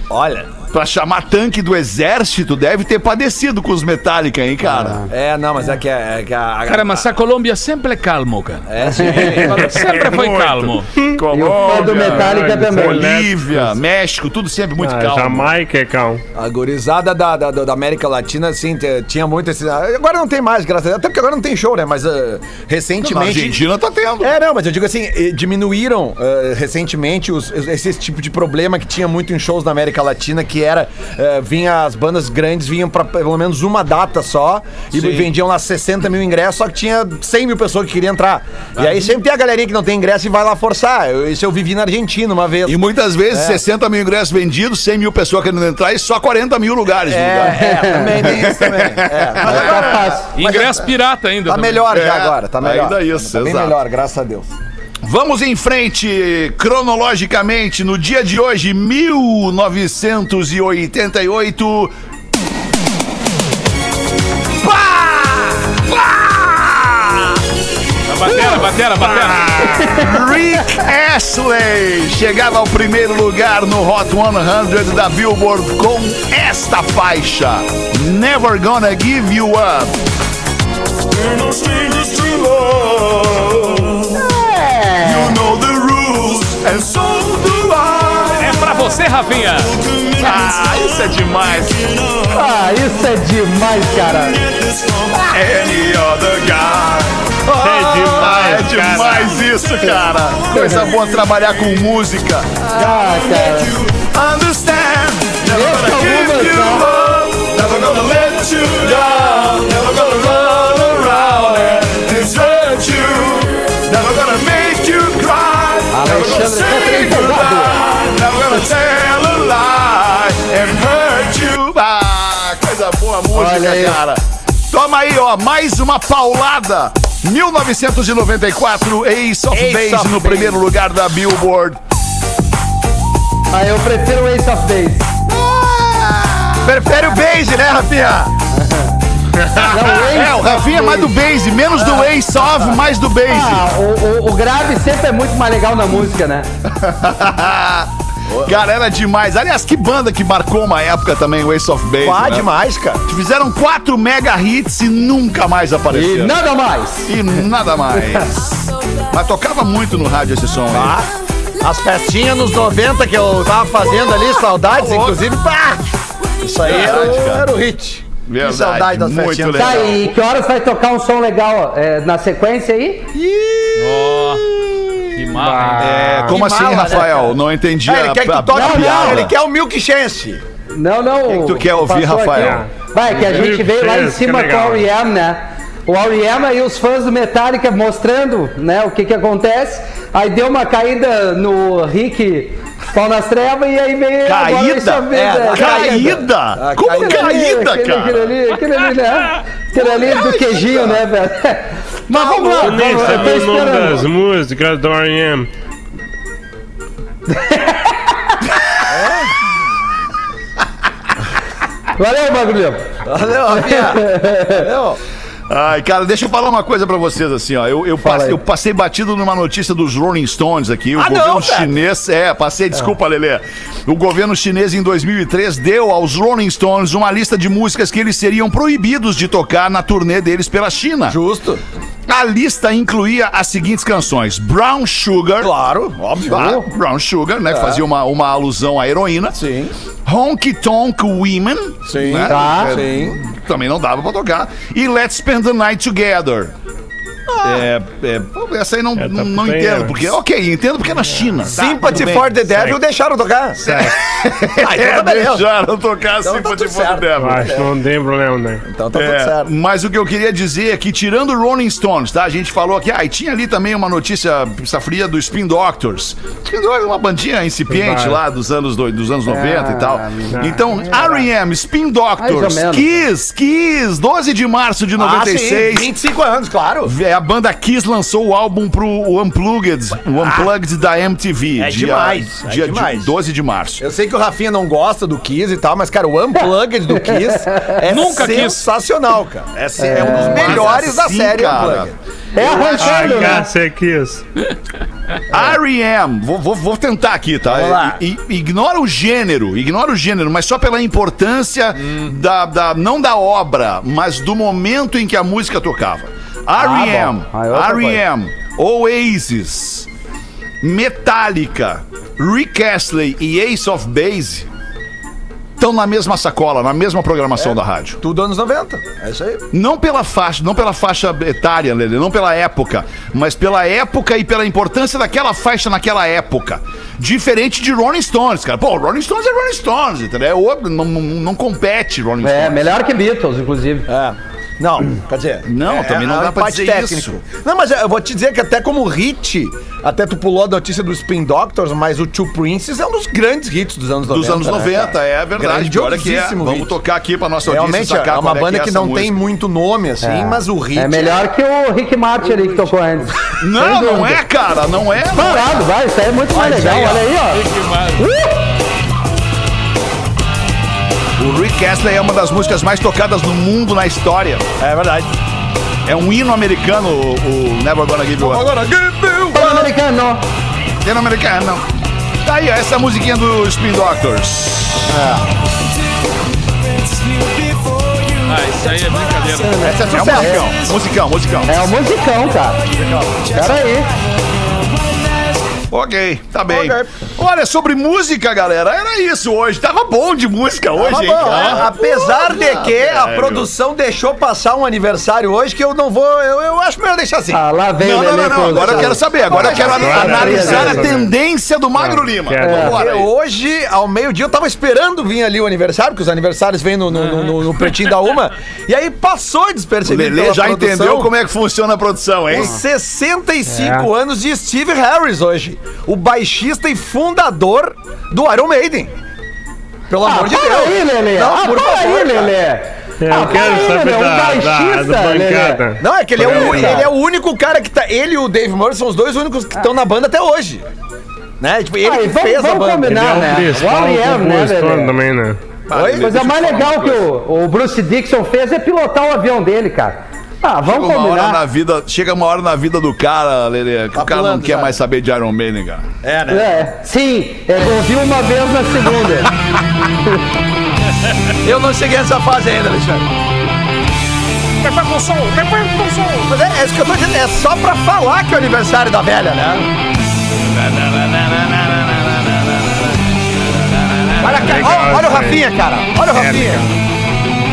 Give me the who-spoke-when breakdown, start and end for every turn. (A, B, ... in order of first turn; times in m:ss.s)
0:00.1-0:00.6 A
0:00.7-0:05.0 B
0:04.6-0:05.0 C
0:05.1-0:07.1 A
0:06.7-0:10.9 D
0:08.7-0:09.8 A
0:08.9-0:09.3 C
0:09.6-0:15.5 B
0:11.0-0:13.7 E
0:11.3-0:13.1 C
0:14.8-0:16.2 E
0:16.4-0:23.6 A
0:23.0-0:24.3 B
0:24.2-0:42.8 A
0:34.9-0:35.3 B
0:42.6-0:50.2 B
0:43.3-0:43.6 A
0:47.0-0:50.9 A
0:47.6-0:48.1 C
0:49.4-0:50.3 C
0:50.4-0:51.9 D
0:51.4-0:54.5 A
0:51.9-0:53.8 B
0:55.0-1:01.9 B
1:04.6-1:07.4 B
1:08.1-1:09.9 D
1:09.0-1:20.0 B
1:09.8-1:10.1 C
1:21.1-1:24.3 B
1:24.2-1:25.4 C
1:25.0-1:28.7 B
1:28.4-1:29.8 D
1:29.8-1:32.5 B
1:32.3-1:34.5 C
1:34.7-2:11.8 B
1:37.6-1:39.4 E
1:37.8-1:38.2 A
1:40.5-1:40.9 C
1:42.7-1:43.8 C
1:45.5-1:46.9 C
1:55.9-1:57.8 C
2:03.3-2:04.0 C
2:09.5-2:10.6 A
2:13.5-2:15.1 C
2:15.2-2:16.9 B
2:16.6-2:18.3 A
2:18.5-2:18.9 C
2:19.4-2:23.6 B
2:19.5-2:21.1 C
2:23.3-2:26.5 C
2:26.6-2:27.9 B
2:28.3-2:28.5 A
2:28.4-2:32.5 B
2:32.0-2:33.0 A
2:33.0-2:36.4 B
2:35.9-2:37.1 C
2:37.0-2:41.0 B
2:40.7-2:41.1 A
2:41.6-2:50.0 A
2:44.6-2:45.2 B
2:46.6-2:47.5 B
2:48.2-2:50.2 B
2:49.5-2:53.1 C
2:53.1-2:54.8 A
2:53.8-2:54.4 D
2:55.2-2:56.3 D
2:55.4-2:56.4 E
2:55.8-2:59.4 B
2:56.2-3:00.4 A
2:58.5-2:59.2 C
3:00.7-3:16.2 C
3:01.2-3:02.6 B
3:02.4-3:04.9 E
3:14.2-3:18.4 B
3:15.1-3:17.4 A
3:17.0-3:24.1 C
3:19.7-3:21.0 B
3:22.1-3:23.3 B
3:22.5-3:25.5 E
3:27.3-3:28.0 C
3:28.9-3:29.3 A
3:32.0-3:32.9 C
3:33.0-3:35.0 A
3:33.5-3:34.6 C
3:35.5-3:51.2 B
3:38.0-3:38.4 C
3:41.0-3:41.7 A
3:51.1-3:51.6 A
3:52.1-3:55.5 B
3:55.4-3:56.5 A
3:56.3-3:59.4 B
3:56.3-3:56.6 C
3:57.5-3:57.8 A
3:59.3-3:59.7 A
4:00.0-4:06.5 B
4:01.9-4:03.2 A
4:02.2-4:02.8 C
4:07.3-4:07.7 A
4:07.4-4:12.8 B
4:09.0-4:09.9 E
4:11.5-4:13.6 A
4:13.6-4:17.6 B
4:14.6-4:15.4 A
4:16.2-4:17.7 A
4:17.2-4:18.6 E
4:18.6-4:19.5 A
4:18.9-4:36.0 B
4:27.7-4:28.2 E
4:29.3-4:31.3 C
4:32.2-4:32.8 C
4:35.0-4:36.9 A
4:36.8-4:43.8 B
4:40.2-4:40.5 A
4:41.6-4:43.1 A
4:43.8-4:52.7 A
4:47.9-4:48.6 D
4:49.6-4:53.4 B
4:49.8-4:50.6 C
4:52.4-4:53.5 C
4:52.8-4:54.2 E
4:55.3-5:09.9 B
4:57.5-4:58.0 A
5:06.6-5:08.0 C
5:10.6-5:14.5 B
5:15.6-5:18.0 B
5:17.4-5:19.4 A
5:19.5-5:32.7 B
5:32.2-5:33.8 C
5:33.9-5:46.7 A
5:35.5-5:37.2 B
5:44.1-5:49.2 B
5:47.5-5:51.3 A
5:50.0-5:54.2 C
5:52.3-5:52.7 A
5:53.4-5:55.6 B
5:55.1-5:57.4 C
5:56.3-5:57.0 A
5:56.5-5:58.1 D
5:58.0-5:58.4 C
6:01.2-6:04.5 B
6:04.6-6:05.1 A
6:05.8-6:08.5 B
6:08.2-6:09.7 A
6:09.3-6:10.2 C
6:10.8-6:11.6 B
6:12.2-6:15.0 B
6:14.9-6:15.3 A
6:17.3-6:18.2 A
6:18.2-6:19.7 D
6:19.3-6:20.6 A
6:19.6-6:21.7 B
6:20.1-6:20.5 C
6:21.4-6:22.6 C
6:22.6-6:23.7 A
6:23.3-6:23.9 C
6:25.7-6:33.5 B
6:26.5-6:26.9 A
6:30.8-6:37.4 A
6:31.2-6:31.6 D
6:37.3-6:39.0 C
6:37.8-6:43.1 B
6:38.5-6:40.9 A
6:39.4-6:41.1 E
6:39.8-6:40.8 C
6:41.8-6:42.8 E
6:42.4-6:42.8 C
6:42.6-6:51.1 A
6:47.0-6:47.9 D
6:49.8-6:52.6 B
6:52.3-6:58.9 A
6:53.5-6:53.9 E
6:59.9-7:02.3 A
7:00.0-7:05.6 C
7:03.0-7:06.9 E
7:03.3-7:03.7 A
7:05.8-7:10.6 A
7:06.2-7:06.9 C
7:11.4-7:13.0 A
7:11.8-7:15.0 C
7:12.9-7:15.4 E
7:15.7-7:17.1 B
7:15.7-7:16.2 A
7:16.0-7:21.4 C
7:20.6-7:25.9 B
7:24.0-7:24.8 A
7:26.0-7:26.5 A
7:26.3-7:29.3 C
7:31.4-7:33.1 A
7:34.6-7:36.3 D
7:36.3-7:39.7 A
7:40.4-7:42.8 B
7:44.0-7:44.7 B
7:44.2-7:46.6 A
7:44.3-7:45.5 E
7:46.0-7:46.7 E